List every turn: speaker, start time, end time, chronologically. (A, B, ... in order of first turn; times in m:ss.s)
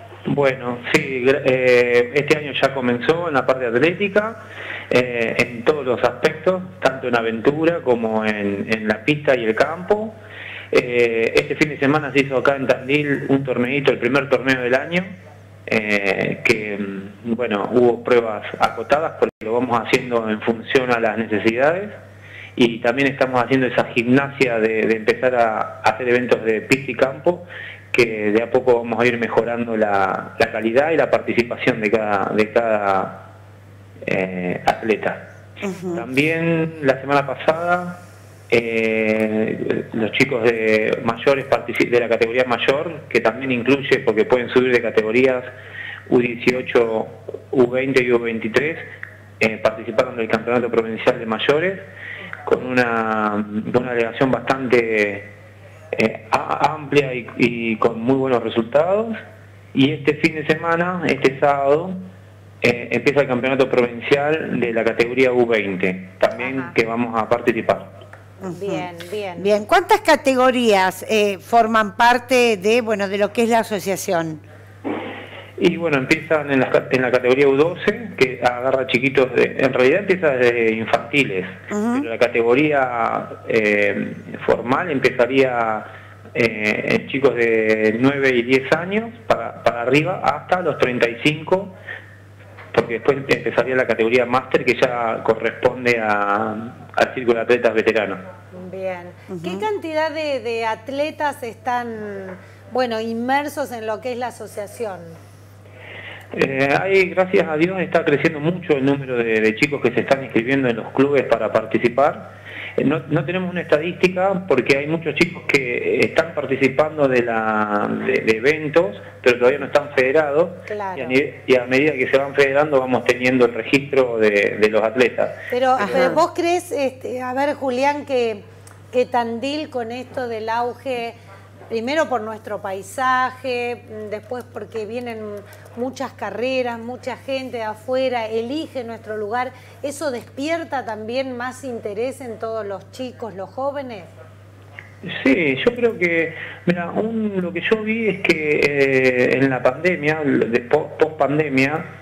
0:00.3-0:04.4 A
0:04.9-0:10.1 A
0:10.7-0:15.1 A
0:15.7-0:22.0 A
0:22.6-0:33.2 A
0:34.0-0:35.2 A
0:35.6-0:36.0 B
0:35.9-0:45.5 A
0:46.1-0:48.9 A
0:49.4-0:51.8 A
0:52.4-0:55.3 A
0:55.9-0:59.1 A
0:59.7-1:02.0 A
1:02.6-1:07.9 A
1:06.4-1:06.7 C
1:08.4-1:08.8 B
1:08.4-1:09.5 C
1:09.4-1:14.4 B
1:15.6-1:31.7 A
1:21.7-1:22.0 B
1:32.7-1:38.2 A
1:38.5-1:45.2 C
1:39.3-1:39.6 B
1:46.3-2:06.1 A
2:00.7-2:01.2 C
2:05.5-2:11.2 C
2:05.8-2:06.2 B
2:11.7-2:24.1 C
2:25.0-2:31.9 A